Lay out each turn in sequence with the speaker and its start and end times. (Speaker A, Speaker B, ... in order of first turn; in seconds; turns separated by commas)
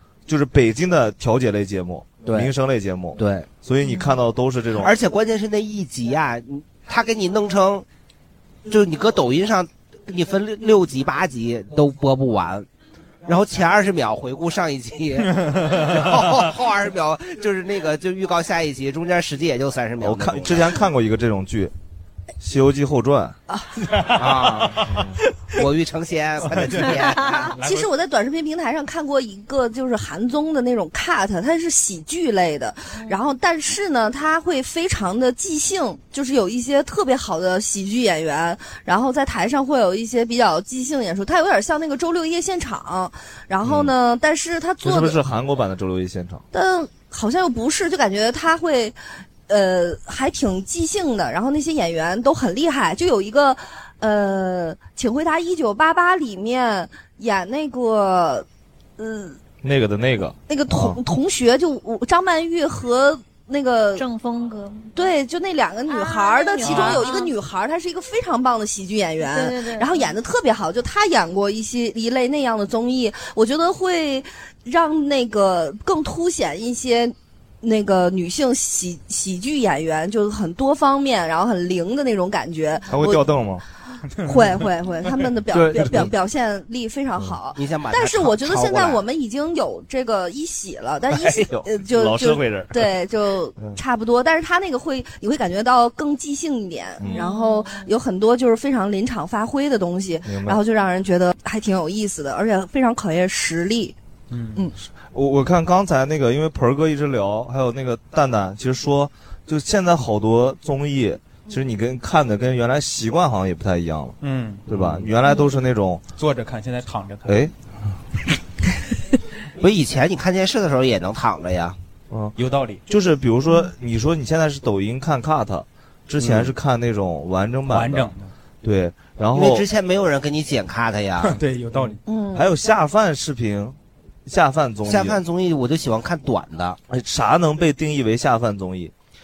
Speaker A: 0.3-4.9, Speaker B: 2.2-2.5, Speaker B: 3.2-3.5, Speaker B: 4.8-7.8, Speaker B: 8.7-12.7, Speaker B: 13.3-20.7, Speaker A: 20.0-21.7, Speaker A: 22.4-23.4, Speaker B: 24.1-24.9, Speaker A: 24.9-25.2, Speaker B: 25.6-27.6, Speaker C: 27.6-45.2, Speaker A: 43.6-43.9, Speaker A: 44.8-46.4, Speaker C: 46.5-49.0, Speaker C: 49.5-58.5, Speaker C: 59.0-59.4, Speaker A: 59.6-61.0, Speaker C: 60.5-64.0, Speaker D: 64.0-65.1, Speaker C: 65.0-83.3, Speaker D: 65.9-67.3, Speaker D: 69.2-70.2, Speaker A: 82.9-83.6, Speaker C: 84.2-104.0, Speaker B: 85.5-86.1, Speaker A: 85.7-86.1, Speaker B: 87.5-89.0, Speaker A: 91.1-92.9, Speaker D: 97.1-97.9, Speaker A: 100.2-100.6, Speaker A: 105.1-116.0, Speaker E: 114.2-114.7, Speaker E: 116.2-117.4, Speaker A: 117.3-117.5, Speaker B: 119.6-121.8, Speaker E: 122.4-122.8, Speaker A: 122.9-129.7, Speaker B: 126.2-126.5, Speaker E: 127.7-128.3, Speaker B: 129.3-131.4, Speaker E: 131.2-132.0, Speaker C: 132.1-132.5, Speaker A: 132.3-135.2, Speaker B: 134.8-136.8, Speaker A: 136.9-138.9